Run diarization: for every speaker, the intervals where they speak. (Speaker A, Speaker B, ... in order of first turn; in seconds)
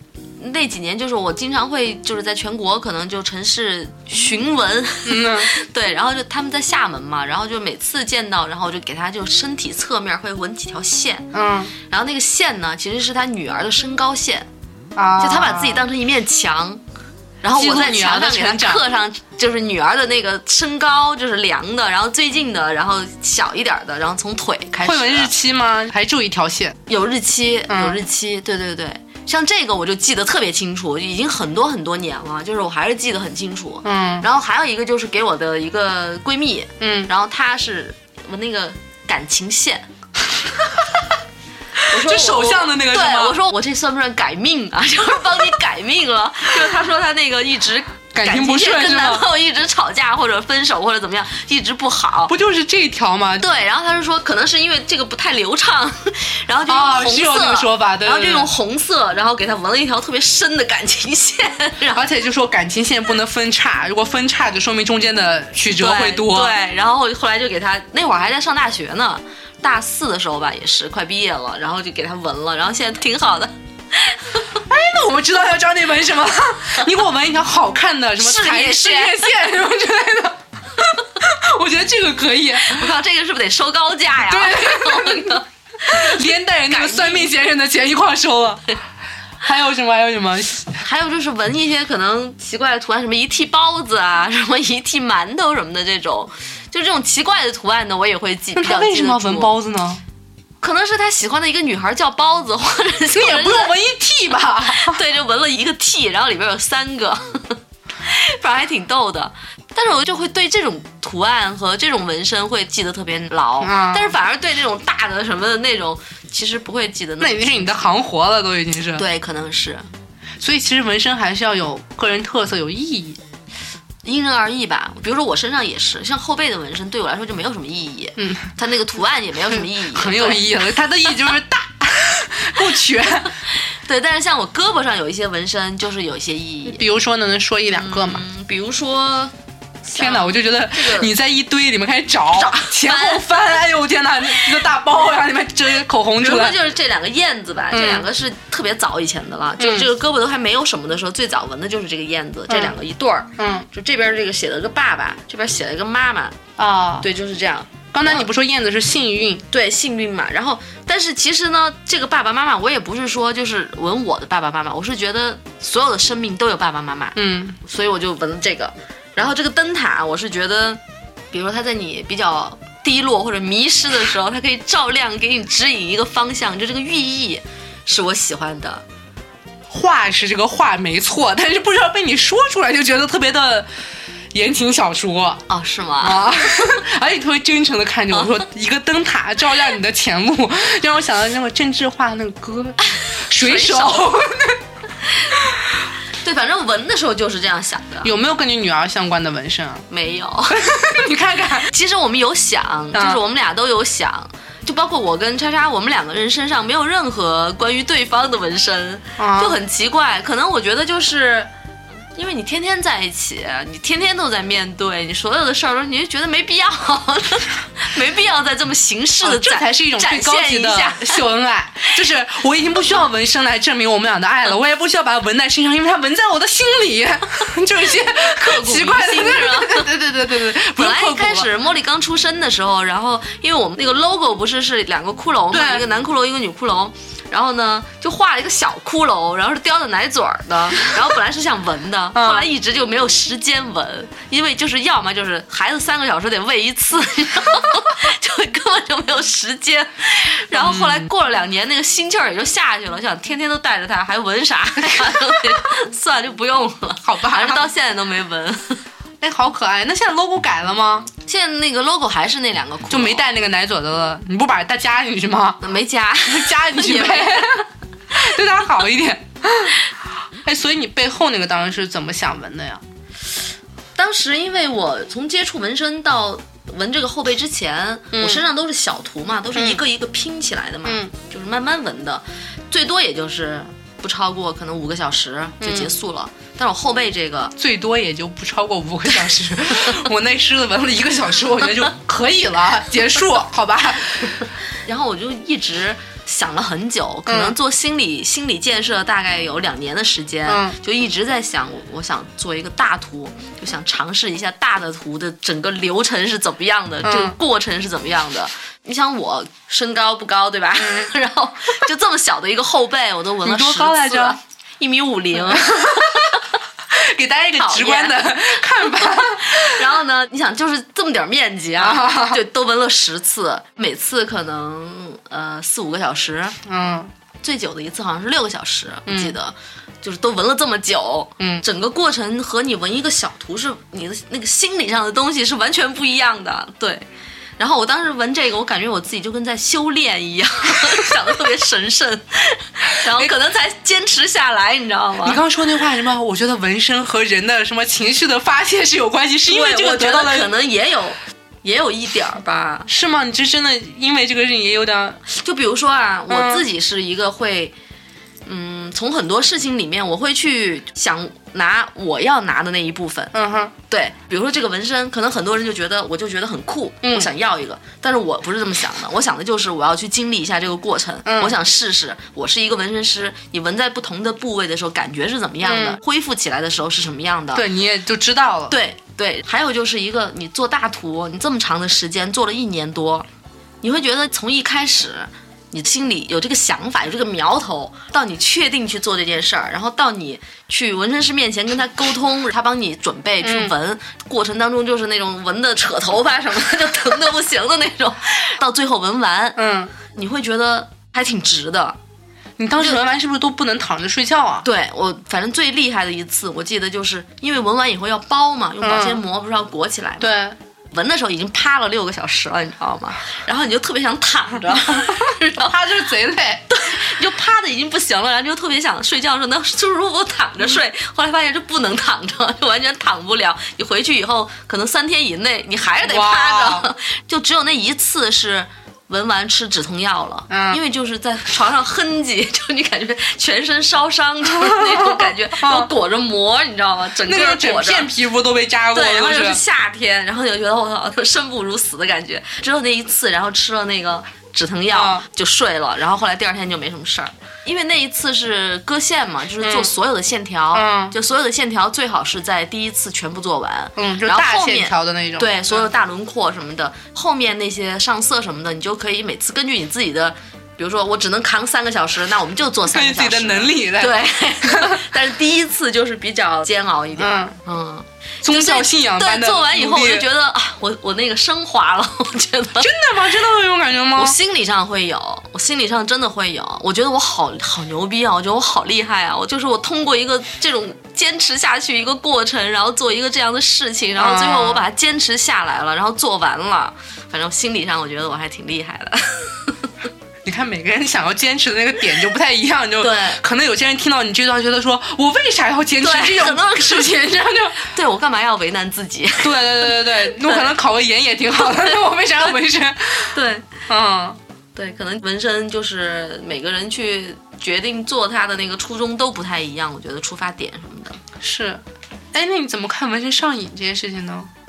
Speaker A: 0.4-11.3, 11.9-14.5, 15.2-16.8, 17.4-25.3, 26.9-39.9, 41.9-52.3, 53.4-62.0, 65.7-74.4, 78.2-79.3, 82.7-87.3, 90.8-99.5, 100.6-103.7, 104.7-117.8, 119.0-119.8, 124.0-130.5, 133.7-136.8, 137.7-139.3, 139.8-141.1, 142.3-143.2, 146.2-156.4, 157.0-158.3, 159.5-170.8, 171.3-178.8, 185.5-186.7, 193.1-194.1, 196.2-198.1, 199.9-200.7, 201.7-211.5, 212.2-221.2, 228.1-229.9, 230.8-258.8, 261.2-263.3, 265.6-267.6, 274.0-287.5, 294.9-316.4, 317.6-326.6, 327.4-337.1, 337.6-345.4, 349.5-352.9, 355.3-357.7, 358.5-363.3, 363.9-377.6, 378.7-383.3, 383.8-402.0, 404.6-410.4, 410.9-415.8, 416.7-438.1, 438.9-472.9, 474.1-489.8, 493.0-493.4, 496.0-497.2, 497.8-500.7, 503.3-503.7, 504.8-511.2
Speaker B: 5.1-5.5, 11.3-11.7, 14.9-15.8, 17.5-18.8, 24.8-26.8, 27.7-28.0, 33.8-34.3, 36.8-37.1, 41.9-43.4, 48.1-49.3, 52.3-53.5, 56.7-58.5, 61.9-66.5, 74.7-82.9, 84.3-88.6, 89.4-90.8, 98.6-100.0, 103.1-105.0, 113.6-114.2, 117.2-119.0, 120.4-123.2, 128.2-128.5, 129.5-133.3, 136.7-138.2, 140.0-146.6, 147.7-148.1, 149.6-149.9, 152.5-152.8, 153.4-153.7, 156.6-157.1, 157.9-159.4, 167.2-167.6, 179.7-183.7, 184.3-185.4, 186.0-194.6, 198.0-199.9, 200.5-201.7, 202.9-203.2, 209.2-209.6, 219.2-231.5, 235.5-235.9, 242.1-242.5, 250.5-251.1, 257.0-257.7, 259.2-261.1, 262.9-265.6, 266.3-269.8, 270.4-272.8, 278.1-278.4, 279.6-279.8, 280.9-281.1, 285.6-285.9, 287.6-294.4, 297.3-297.6, 300.5-300.8, 307.0-307.4, 310.8-311.1, 313.4-314.4, 315.4-316.4, 316.9-319.9, 321.8-322.4, 326.7-327.1, 329.1-329.4, 331.4-331.6, 343.1-343.3, 345.2-350.5, 352.9-355.2, 356.3-356.7, 363.3-363.7, 367.0-367.3, 371.3-371.6, 375.6-376.0, 377.5-378.8, 393.4-393.7, 399.6-399.9, 402.6-404.7, 408.8-409.2, 410.2-410.6, 415.0-416.7, 426.1-426.9, 430.5-430.8, 434.6-435.9, 437.2-439.6, 444.9-445.2, 449.6-449.9, 450.7-451.1, 454.0-455.9, 462.9-465.0, 467.2-467.6, 468.4-470.3, 472.8-474.4, 484.2-484.9, 490.4-497.8, 499.4-503.4, 503.9-504.4, 511.4-514.5